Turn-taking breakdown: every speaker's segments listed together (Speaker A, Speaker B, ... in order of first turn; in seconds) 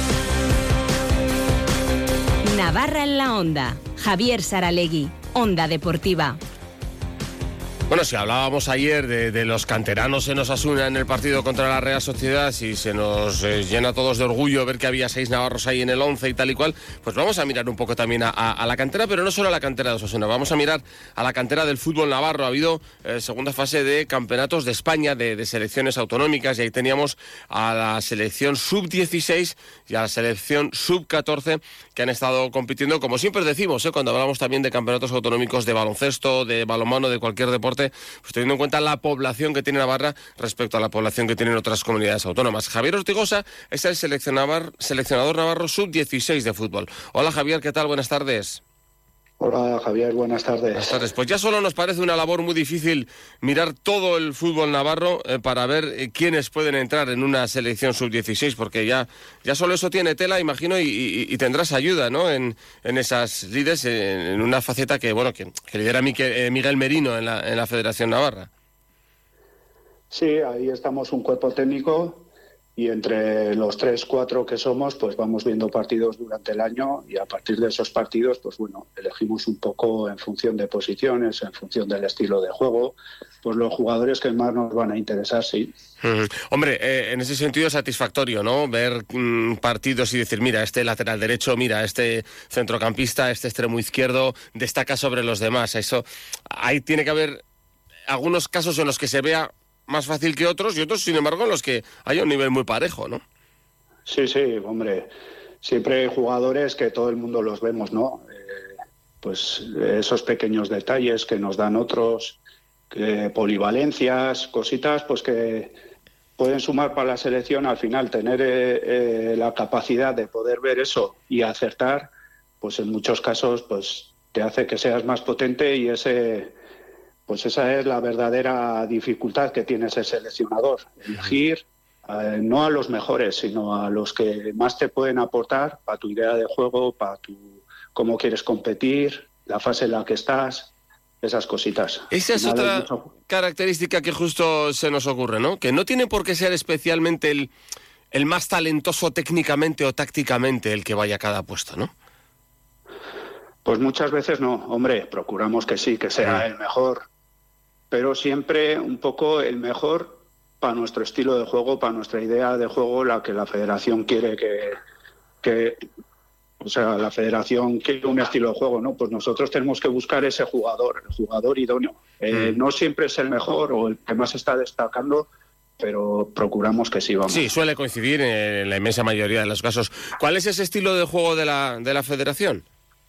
Speaker A: 2.5-6.4
Speaker B: 7.9-48.6, 50.7-68.5, 86.0-97.4, 98.1-103.2, 142.1-147.5, 148.1-151.9, 172.3-172.6, 177.3-182.6
Speaker C: 49.4-50.9, 70.1-85.7, 104.0-105.1, 105.6-112.4, 112.9-115.8, 116.4-126.5, 127.3-143.0, 153.6-157.0, 157.9-164.8, 165.4-165.8, 166.6-177.5